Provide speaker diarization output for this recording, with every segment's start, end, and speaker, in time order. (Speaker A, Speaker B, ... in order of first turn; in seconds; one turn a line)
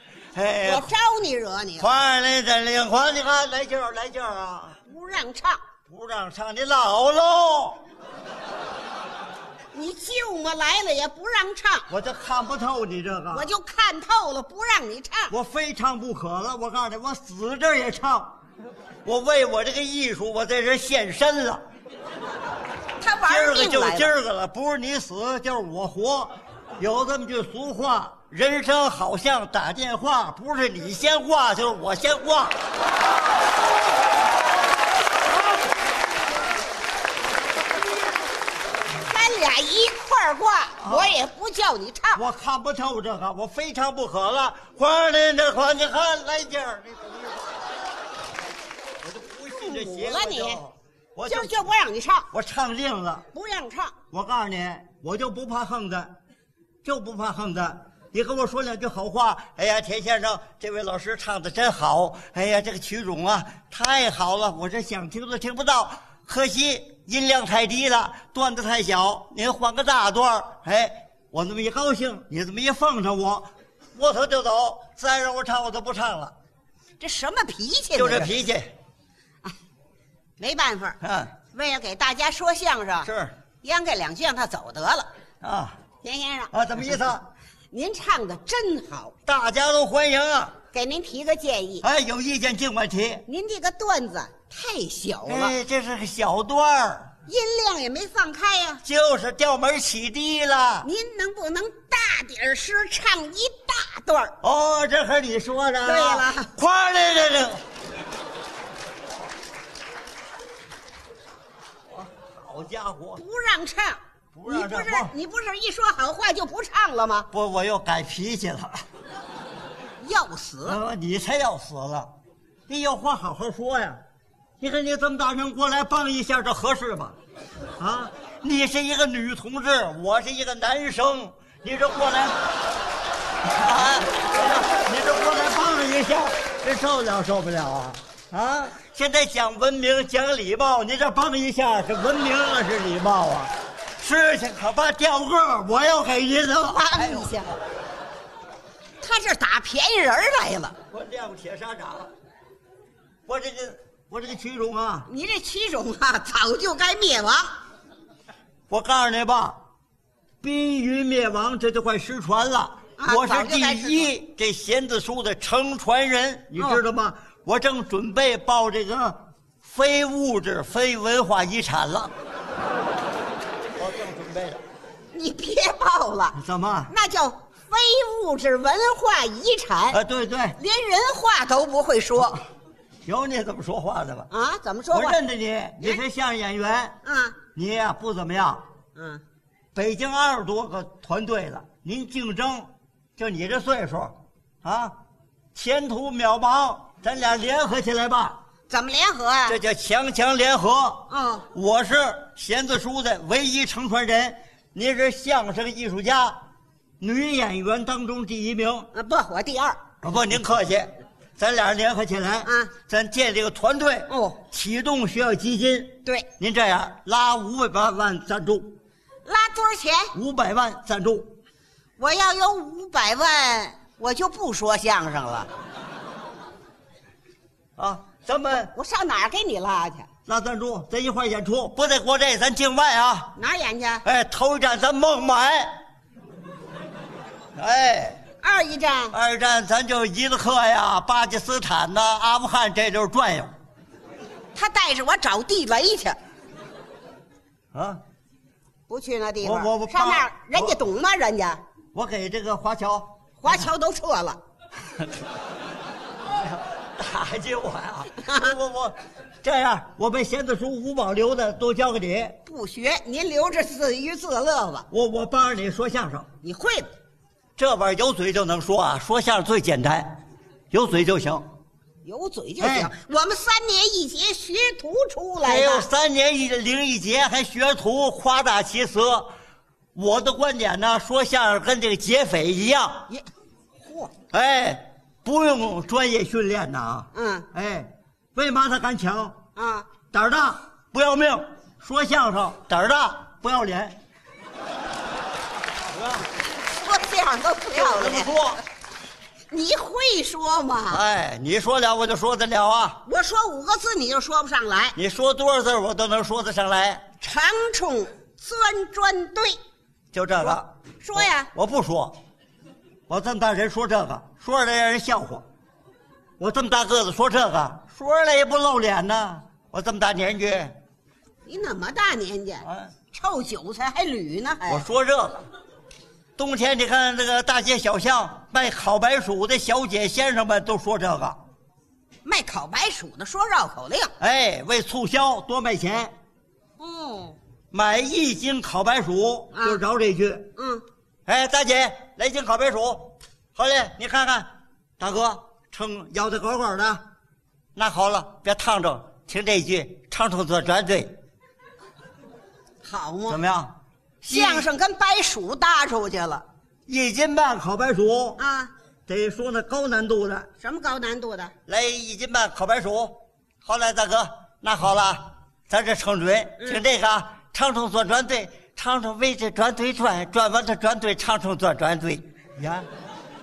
Speaker A: 0.3-0.9
Speaker B: 0.7-1.9
Speaker A: 1.8-4.8
Speaker B: 4.9-5.6
Speaker A: 5.9-7.8
Speaker B: 9.7-11.9
Speaker A: 11.9-13.5
Speaker B: 13.3-15.3
Speaker A: 15.3-18.4
Speaker A: 19.1-21.6
Speaker B: 23.0-24.1
Speaker A: 23.2-32.6
Speaker B: 39.0-42.2
Speaker A: 40.8-41.2
Speaker A: 42.1-47.6
Speaker A: 49.0-51.6
Speaker B: 49.5-50.6
Speaker B: 51.3-52.3
Speaker A: 52.3-53.3
Speaker B: 53.3-54.0
Speaker A: 54.1-56.1
Speaker A: 56.8-76.3
Speaker B: 77.0-78.3
Speaker A: 78.0-78.7
Speaker B: 80.4-81.0
Speaker A: 81.0-81.3
Speaker B: 81.5-83.1
Speaker A: 83.0-83.3
Speaker B: 83.6-85.1
Speaker A: 85.4-85.8
Speaker B: 86.0-86.5
Speaker A: 86.5-87.3
Speaker B: 87.7-89.2
Speaker A: 89.3-90.6
Speaker B: 90.7-91.8
Speaker A: 91.8-93.3
Speaker B: 93.3-95.5
Speaker A: 95.2-97.1
Speaker B: 97.3-98.8
Speaker A: 98.8-100.9
Speaker B: 100.8-104.3
Speaker A: 104.4-107.6
Speaker B: 105.8-106.5
Speaker A: 111.9-113.2
Speaker B: 113.2-117.3
Speaker A: 114.3-115.1
Speaker A: 117.3-118.8
Speaker B: 120.0-120.8
Speaker A: 120.7-122.1
Speaker A: 122.7-124.0
Speaker A: 124.6-127.2
Speaker A: 127.8-132.4
Speaker A: 133.4-147.5
Speaker B: 146.7-147.5
Speaker B: 149.0-150.8
Speaker A: 150.9-152.1
Speaker A: 153.3-155.1
Speaker B: 155.1-157.6
Speaker A: 158.7-159.6
Speaker A: 160.4-172.1
Speaker B: 163.0-164.1
Speaker A: 173.8-174.6
Speaker B: 175.1-176.4
Speaker A: 176.3-176.9
Speaker B: 176.9-180.0
Speaker A: 179.9-180.6
Speaker B: 180.6-182.4
Speaker A: 183.1-184.3
Speaker B: 184.3-185.2
Speaker A: 184.9-187.0
Speaker B: 187.1-187.4
Speaker A: 187.5-188.7
Speaker B: 188.9-189.2
Speaker A: 189.7-195.0
Speaker A: 195.5-198.4
Speaker B: 198.7-199.6
Speaker A: 199.5-206.4
Speaker B: 201.1-201.4
Speaker A: 207.0-208.9
Speaker B: 208.9-209.8
Speaker A: 210.0-218.8
Speaker B: 212.4-212.7
Speaker B: 214.1-214.4
Speaker B: 219.3-220.1
Speaker A: 220.1-221.3
Speaker B: 222.0-225.5
Speaker A: 227.8-228.7
Speaker B: 228.7-230.1
Speaker A: 230.3-233.3
Speaker B: 233.4-234.0
Speaker A: 234.1-235.8
Speaker A: 237.6-238.2
Speaker B: 238.4-239.2
Speaker A: 239.1-243.5
Speaker B: 244.6-246.2
Speaker A: 247.7-248.0
Speaker B: 248.9-251.6
Speaker A: 249.4-250.8
Speaker A: 251.9-253.7
Speaker B: 253.4-254.4
Speaker A: 256.3-262.4
Speaker B: 258.2-258.5
Speaker B: 262.5-264.9
Speaker A: 264.9-266.3
Speaker B: 266.4-266.9
Speaker A: 267.6-271.5
Speaker B: 272.0-275.9
Speaker A: 272.6-272.9
Speaker A: 275.4-279.3
Speaker A: 279.9-283.1
Speaker B: 283.8-284.1
Speaker A: 284.3-289.5
Speaker B: 287.1-287.5
Speaker B: 289.6-289.9
Speaker A: 290.1-294.0
Speaker A: 295.9-296.3
Speaker B: 296.7-298.3
Speaker A: 297.7-298.6
Speaker B: 299.5-301.0
Speaker A: 300.9-303.0
Speaker B: 303.1-304.9
Speaker A: 304.9-307.1
Speaker B: 307.2-309.6
Speaker A: 310.1-312.2
Speaker B: 310.4-311.5
Speaker A: 313.1-315.5
Speaker A: 316.4-320.8
Speaker B: 321.5-324.8
Speaker A: 322.6-322.9
Speaker A: 324.7-325.4
Speaker A: 326.4-331.4
Speaker B: 332.2-334.1
Speaker A: 334.2-336.1
Speaker B: 336.8-337.4
Speaker A: 337.7-340.5
Speaker B: 339.6-339.8
Speaker B: 340.6-340.8
Speaker A: 341.3-347.0
Speaker A: 347.8-351.1
Speaker B: 352.8-353.4
Speaker A: 353.3-353.7
Speaker B: 354.2-356.4
Speaker A: 354.3-354.7
Speaker A: 356.9-358.4
Speaker B: 358.4-358.7
Speaker A: 359.1-360.5
Speaker B: 360.6-361.5
Speaker A: 361.7-372.9